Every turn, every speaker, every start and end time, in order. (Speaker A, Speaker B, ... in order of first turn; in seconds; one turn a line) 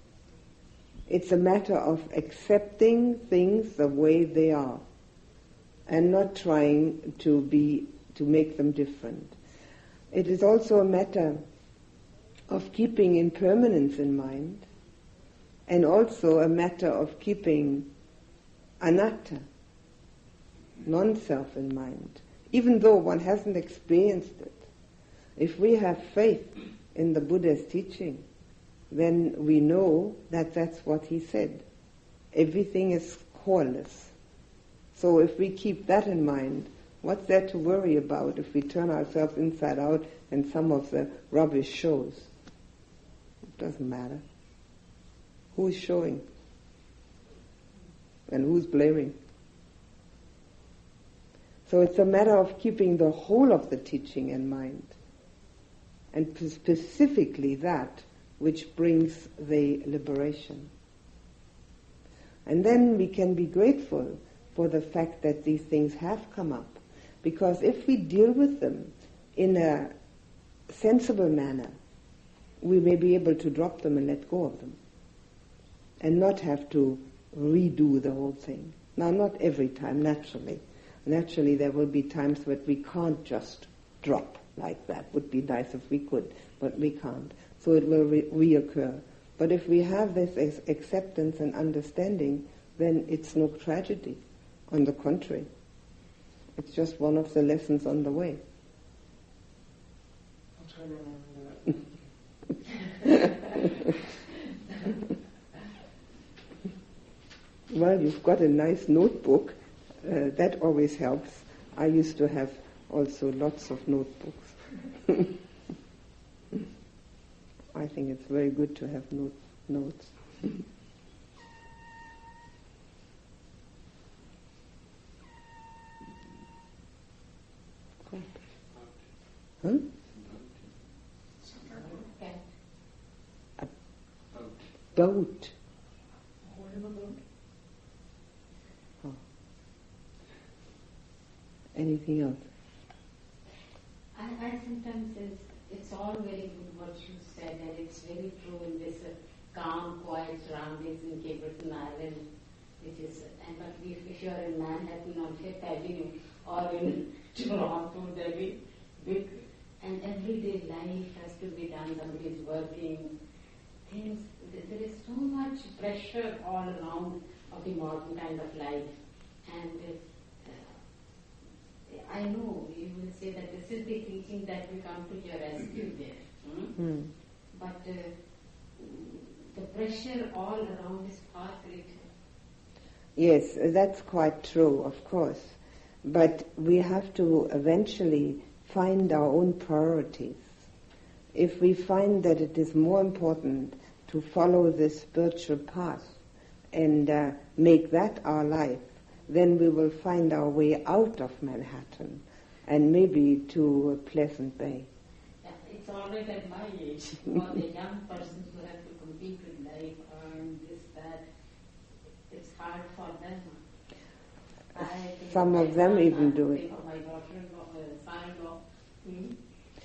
Speaker A: 1.1-4.8
Speaker A: 5.9-9.3
Speaker A: 10.1-11.4
Speaker A: 12.5-14.7
Speaker A: 15.7-17.9
Speaker A: 18.8-19.5
Speaker A: 20.8-24.6
Speaker A: 25.4-28.2
Speaker A: 28.9-31.6
Speaker A: 32.3-34.1
Speaker A: 35.0-42.3
Speaker A: 43.5-44.2
Speaker A: 45.5-46.2
Speaker A: 48.3-49.2
Speaker A: 51.7-55.0
Speaker A: 56.1-60.7
Speaker A: 62.5-69.9
Speaker A: 70.7-71.8
Speaker A: 72.6-74.8
Speaker A: 76.0-95.5
Speaker A: 96.6-98.4
Speaker B: 100.6-103.3
Speaker A: 107.7-115.3
Speaker A: 117.7-120.6
Speaker A: 128.1-128.4
Speaker C: 131.7-132.4
Speaker A: 134.9-135.5
Speaker C: 136.4-137.2
Speaker A: 141.8-142.5
Speaker C: 144.1-152.3
Speaker C: 152.8-163.2
Speaker C: 163.8-170.8
Speaker C: 171.9-176.7
Speaker A: 176.8-177.1
Speaker C: 177.5-178.2
Speaker C: 178.7-182.1
Speaker A: 183.2-190.5
Speaker A: 191.3-196.1
Speaker A: 196.7-204.9
Speaker C: 205.4-211.2
Speaker C: 212.3-213.6
Speaker C: 214.8-219.4
Speaker A: 215.2-216.8